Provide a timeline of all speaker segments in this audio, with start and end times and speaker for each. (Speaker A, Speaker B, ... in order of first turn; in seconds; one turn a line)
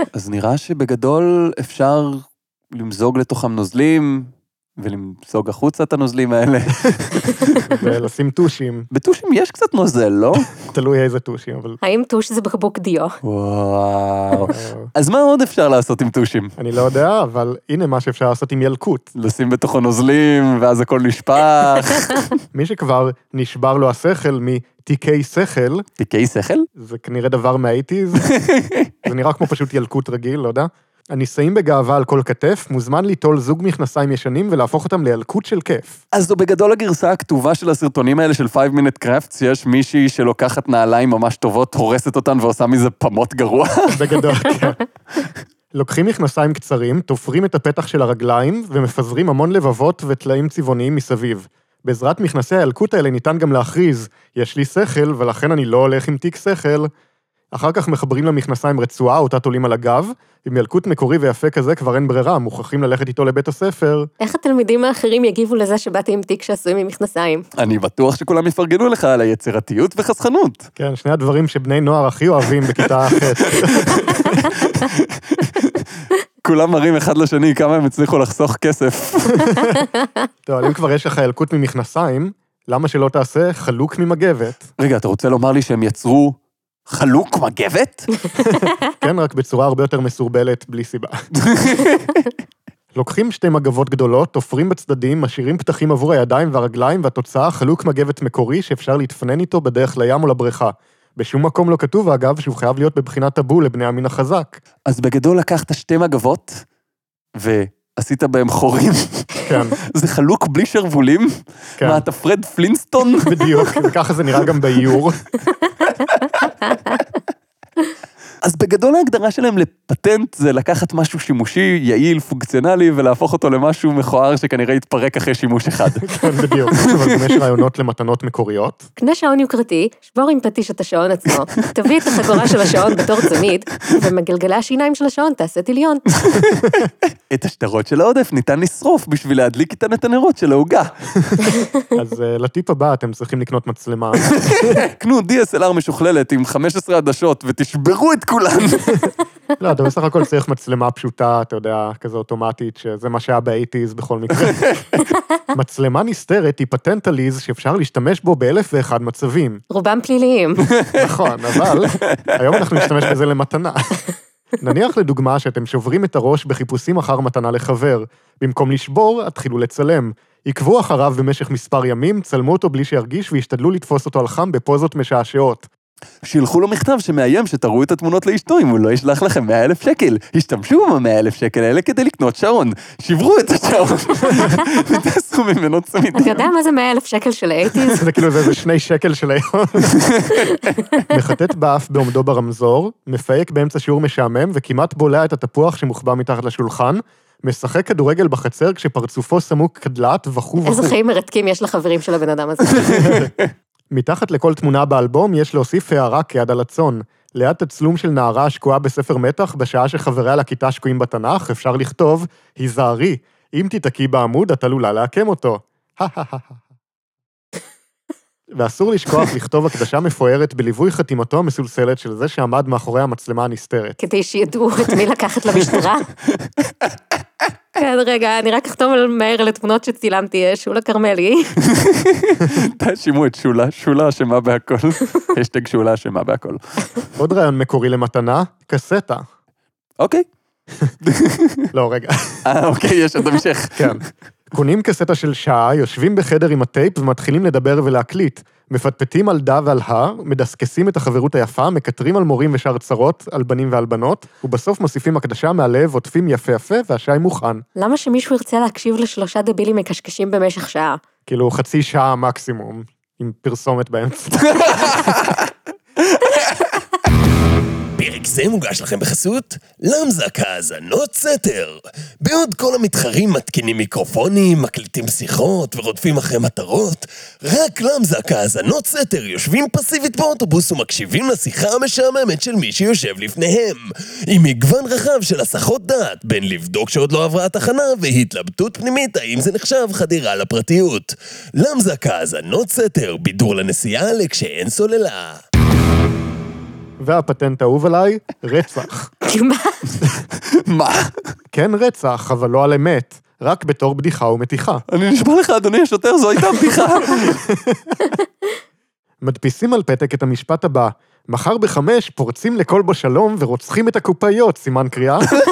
Speaker A: 0.1-7.6
Speaker B: 7.7-8.9
Speaker A: 8.9-10.5
Speaker B: 10.7-11.8
Speaker C: 11.8-13.2
Speaker A: 13.2-16.6
Speaker B: 14.5-14.9
Speaker B: 16.6-19.1
Speaker A: 19.2-22.3
Speaker B: 22.5-25.9
Speaker A: 26.0-26.7
Speaker B: 26.8-28.3
Speaker A: 28.2-28.9
Speaker B: 29.1-36.0
Speaker A: 36.1-44.0
Speaker B: 43.9-44.8
Speaker B: 45.7-56.9
Speaker B: 57.5-64.1
Speaker C: 64.2-67.5
Speaker A: 67.6-70.7
Speaker B: 70.8-74.5
Speaker A: 73.5-79.7
Speaker B: 79.4-79.8
Speaker B: 80.5-84.7
Speaker A: 84.8-88.1
Speaker B: 88.4-91.2
Speaker A: 91.4-92.1
Speaker B: 93.0-104.6
Speaker A: 104.9-106.7
Speaker A: 107.4-113.7
Speaker B: 109.5-109.8
Speaker B: 111.8-112.0
Speaker B: 113.2-115.2
Speaker A: 118.4-127.3
Speaker B: 126.0-128.9
Speaker C: 129.0-136.4
Speaker A: 131.6-134.1
Speaker A: 136.2-141.1
Speaker B: 141.9-144.8
Speaker A: 144.3-149.1
Speaker B: 149.6-154.6
Speaker A: 154.4-155.0
Speaker B: 155.5-159.6
Speaker C: 159.7-160.7
Speaker A: 160.7-161.0
Speaker B: 161.0-164.1
Speaker A: 161.9-163.0
Speaker B: 164.6-175.7
Speaker A: 176.2-186.5
Speaker C: 186.2-188.1
Speaker A: 187.7-188.0
Speaker B: 188.0-190.0
Speaker A: 189.9-190.5
Speaker B: 191.1-201.0
Speaker C: 200.6-203.3
Speaker A: 202.8-203.2
Speaker B: 203.0-203.3
Speaker B: 203.9-216.6
Speaker B: 218.5-224.0
Speaker C: 224.0-226.1
Speaker A: 226.3-227.0
Speaker C: 227.8-231.6
Speaker A: 231.6-236.9
Speaker B: 237.2-239.3
Speaker A: 240.0-240.3
Speaker A: 241.0-241.7
Speaker B: 241.7-242.4
Speaker A: 242.4-244.1
Speaker B: 243.8-257.6
Speaker C: 257.8-261.0
Speaker B: 261.3-265.1
Speaker A: 264.5-265.5
Speaker A: 266.1-266.7
Speaker D: 268.0-295.4
Speaker B: 297.0-299.1
Speaker C: 299.2-299.8
Speaker A: 300.4-301.3
Speaker B: 301.5-304.8
Speaker A: 304.9-307.4
Speaker B: 307.5-308.0
Speaker B: 309.2-315.4